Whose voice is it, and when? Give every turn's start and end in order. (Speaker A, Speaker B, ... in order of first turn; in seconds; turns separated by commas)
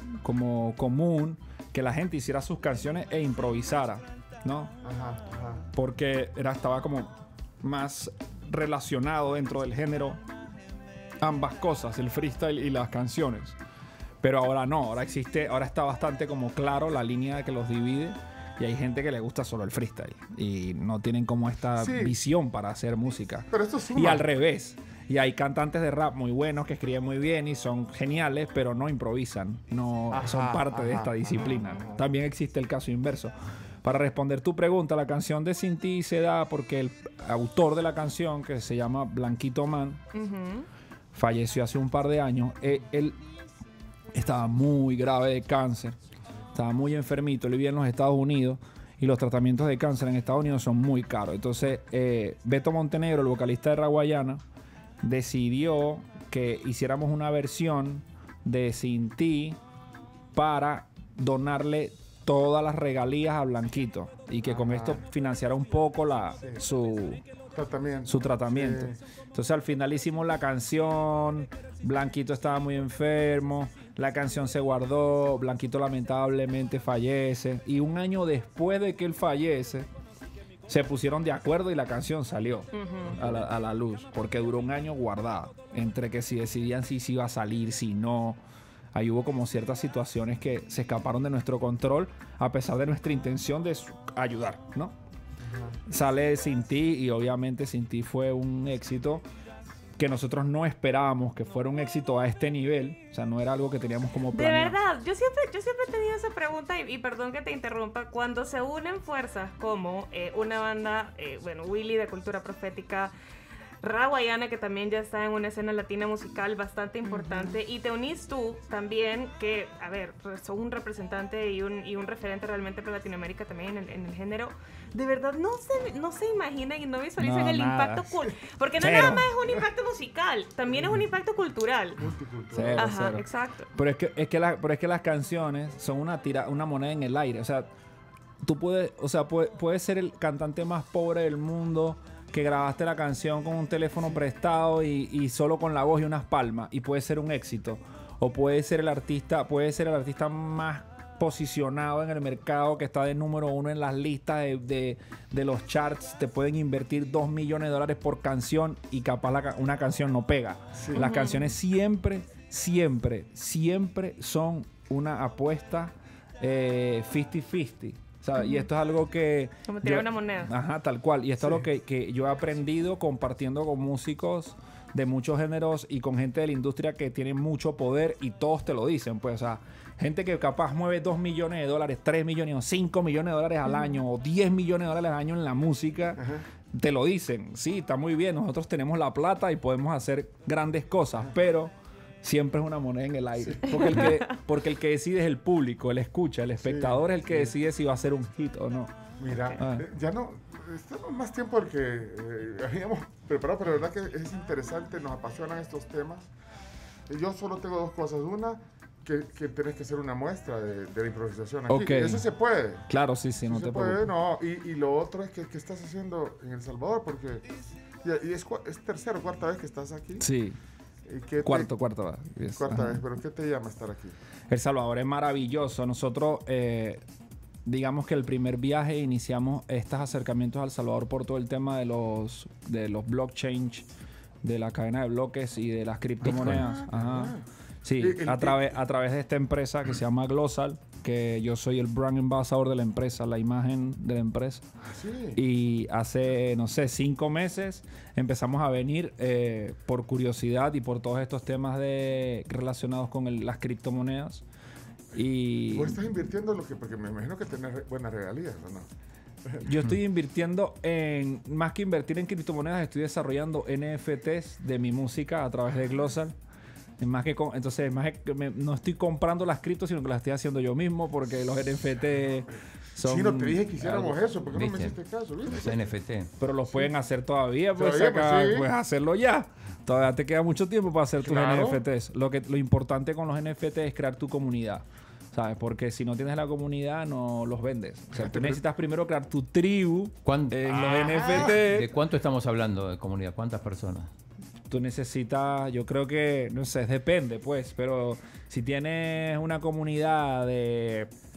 Speaker A: 0.2-4.7, Speaker B: 4.8-5.6, Speaker A: 5.7-10.2, Speaker A: 11.2-13.6, Speaker A: 14.2-40.0, Speaker B: 21.8-22.1, Speaker B: 23.5-24.3, Speaker B: 30.1-32.0, Speaker C: 40.1-40.7, Speaker A: 41.1-43.2, Speaker A: 44.1-46.0, Speaker A: 46.5-54.4, Speaker A: 55.0-59.6, Speaker A: 60.3-67.2, Speaker B: 64.4-65.0, Speaker B: 67.5-69.0, Speaker A: 68.1-79.9, Speaker A: 80.7-88.4, Speaker C: 82.7-83.2, Speaker A: 88.9-95.0, Speaker B: 95.4-95.8, Speaker A: 95.9-99.2, Speaker A: 100.0-104.8, Speaker C: 104.3-113.1, Speaker C: 113.8-132.0, Speaker B: 117.0-117.6, Speaker A: 127.2-128.2, Speaker A: 128.8-129.3, Speaker B: 130.7-131.0, Speaker B: 132.0-132.9, Speaker A: 132.6-133.2, Speaker C: 132.8-133.7, Speaker A: 133.7-137.7, Speaker A: 138.4-186.2, Speaker B: 160.7-161.1, Speaker C: 160.9-161.5, Speaker C: 168.4-168.7, Speaker C: 169.7-170.5, Speaker B: 186.2-186.4, Speaker A: 186.7-198.9, Speaker B: 193.4-194.0, Speaker B: 196.6-197.5, Speaker B: 199.2-206.3, Speaker A: 199.6-199.9, Speaker B: 207.1-212.8, Speaker A: 211.7-212.2, Speaker A: 212.9-214.1, Speaker B: 213.5-217.4, Speaker B: 218.0-220.3, Speaker A: 220.2-220.6, Speaker B: 221.1-221.7, Speaker A: 221.4-223.0, Speaker B: 222.6-224.2, Speaker A: 224.5-227.0, Speaker A: 227.7-233.8, Speaker A: 234.4-244.7, Speaker B: 236.2-237.4, Speaker B: 238.0-238.7, Speaker B: 244.8-245.4, Speaker A: 245.3-254.4, Speaker A: 255.2-256.0, Speaker B: 255.7-258.9, Speaker A: 259.6-266.4, Speaker A: 267.0-274.2, Speaker B: 273.0-275.9, Speaker D: 274.5-276.3, Speaker A: 276.4-291.9, Speaker B: 277.8-278.7, Speaker B: 281.2-281.8, Speaker B: 288.1-288.6, Speaker D: 290.2-294.1, Speaker B: 290.9-291.6, Speaker A: 294.7-301.1